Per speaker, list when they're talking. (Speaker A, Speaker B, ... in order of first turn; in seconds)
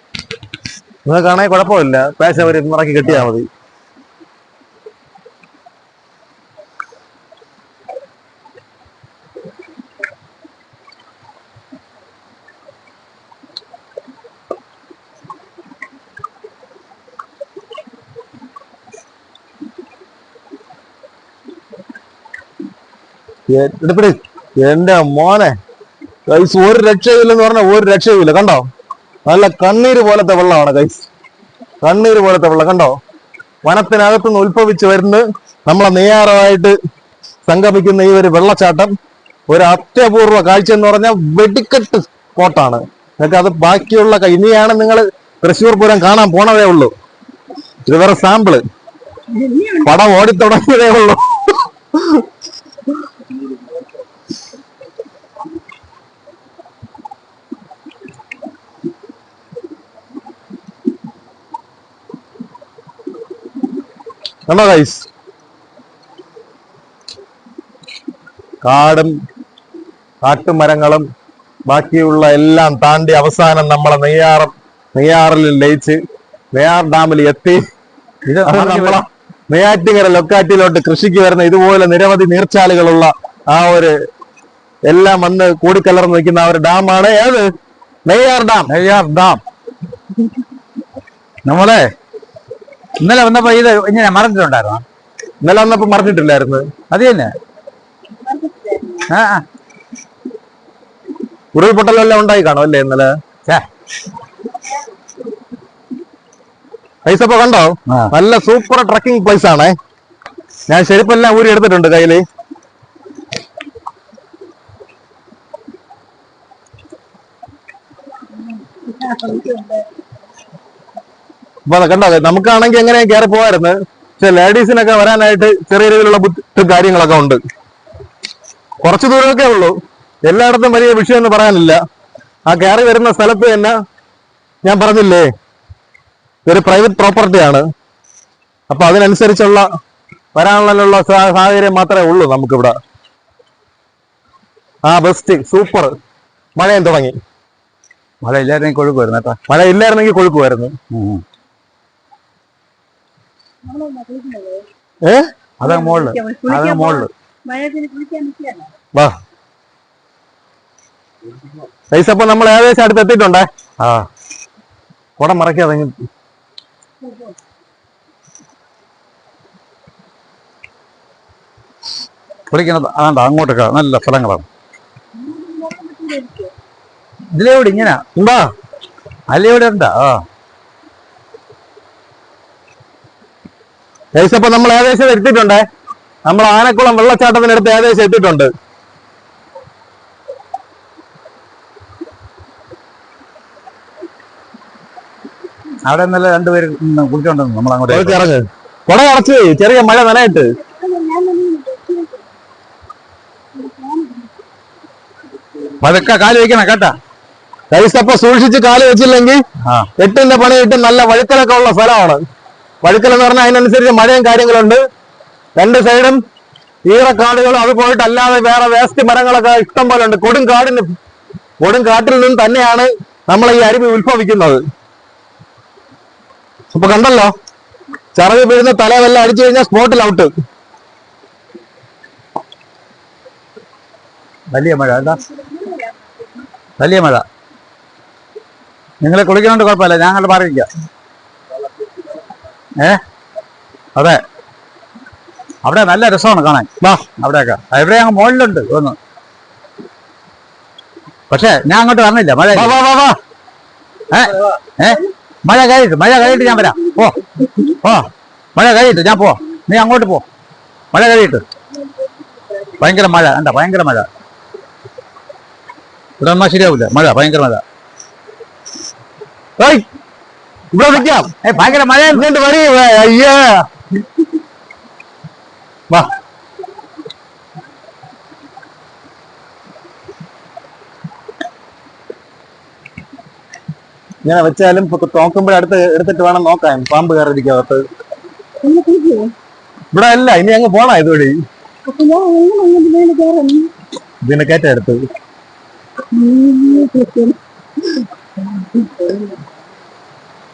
Speaker A: 1.1-3.5, 23.5-25.5, 26.3-28.6, 29.3-31.1, 31.8-33.0, 33.6-36.7, 37.5-38.9, 39.5-46.9, 47.9-48.6, 49.8-52.2, 64.5-65.0, 68.6-69.1, 70.2-71.0, 71.7-76.0, 76.5-77.6, 78.5-83.9, 84.9-87.5, 88.1-88.7, 95.4-96.7, 101.5-103.1, 107.0-109.7, 110.7-112.2, 121.7-127.4, 128.8-131.8, 132.5-133.7, 134.6-135.3, 136.4-137.6, 138.7-139.7, 140.3-142.8, 144.8-145.9, 146.6-147.1, 149.5-150.7, 155.0-155.3, 161.9-163.5, 165.2-165.9, 178.2-178.4, 184.2-185.6, 186.3-188.5, 197.9-200.5, 207.7-209.4, 210.0-212.2, 212.8-214.8, 215.6-216.2, 216.8-220.9, 221.6-224.6, 226.7-227.3, 228.2-230.3, 252.5-253.2, 269.6-269.8, 270.7-271.3, 272.1-273.6, 284.2-287.8, 289.9-291.4, 294.2-295.0
Speaker B: 49.3-49.9, 98.2-99.1, 118.3-119.9, 153.6-154.7, 155.6-158.7, 167.0-167.3, 175.1-176.5, 200.6-202.3, 203.5-204.3, 235.1-236.1, 256.2-257.8, 262.0-262.8, 288.6-289.3, 291.9-293.7, 296.1-297.4, 298.5-299.4
Speaker C: 78.2-79.0, 88.7-89.4, 91.4-91.9, 93.0-94.8, 96.9-97.3, 99.1-99.4, 148.2-149.4, 150.9-151.2, 155.6-157.1, 163.8-164.1, 172.5-174.4, 177.3-178.0, 179.3-180.2, 195.8-198.2, 205.8-206.9, 234.5-235.2, 236.8-237.2, 239.0-240.7, 243.9-244.2, 245.6-248.9, 251.3-252.7, 254.1-260.2, 260.9-261.4, 262.8-264.1, 266.2-267.6, 271.4-272.2